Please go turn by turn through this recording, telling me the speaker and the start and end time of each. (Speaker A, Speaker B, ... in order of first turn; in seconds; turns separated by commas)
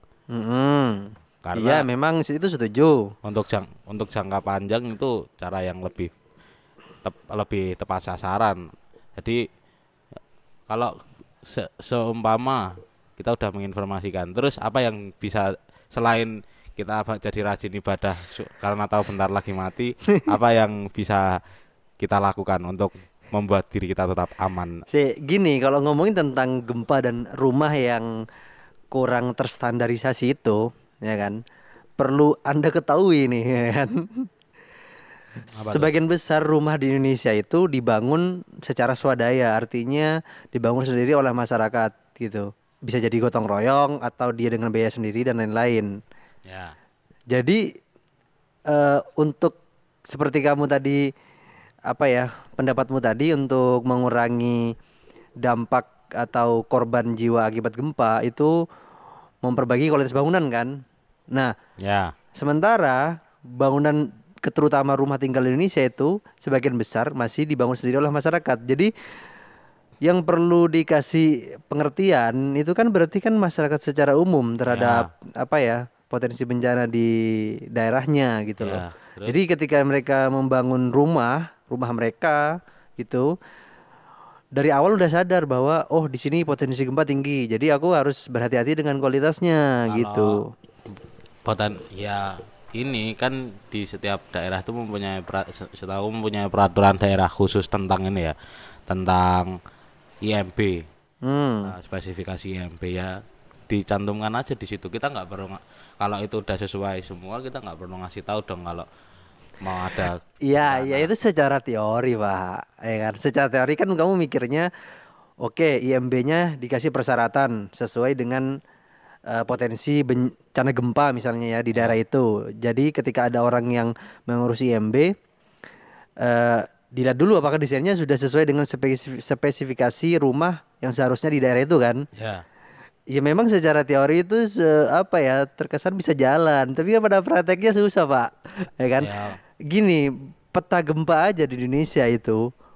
Speaker A: 0.3-3.0, Speaker B: 1.4-1.9, Speaker B: 3.2-6.1, Speaker B: 7.0-8.6, Speaker B: 11.4-12.6, Speaker B: 13.2-21.4, Speaker B: 22.0-24.8, Speaker A: 24.9-28.1, Speaker A: 28.9-31.4, Speaker A: 32.0-34.3, Speaker B: 35.5-35.9, Speaker A: 35.6-45.9, Speaker B: 46.5-46.7, Speaker A: 47.3-47.6, Speaker A: 48.7-49.5, Speaker A: 50.1-51.0, Speaker A: 51.9-54.7, Speaker A: 55.4-58.5, Speaker A: 59.4-60.7, Speaker B: 61.8-62.1, Speaker A: 62.4-63.0, Speaker A: 63.6-68.9, Speaker A: 70.0-77.1, Speaker B: 74.7-75.1, Speaker A: 77.7-82.4, Speaker B: 78.6-79.3, Speaker A: 83.0-83.2, Speaker A: 84.6-90.5, Speaker B: 89.9-90.3, Speaker B: 91.5-98.3, Speaker B: 98.9-99.5, Speaker B: 100.2-100.8, Speaker A: 101.2-101.7, Speaker B: 101.7-103.1, Speaker B: 103.7-108.9, Speaker B: 109.6-111.1, Speaker A: 110.5-114.7, Speaker A: 115.4-118.5, Speaker A: 119.3-125.1, Speaker A: 126.2-132.0, Speaker B: 132.2-132.4, Speaker A: 133.1-139.1, Speaker B: 139.0-139.4, Speaker A: 139.7-142.4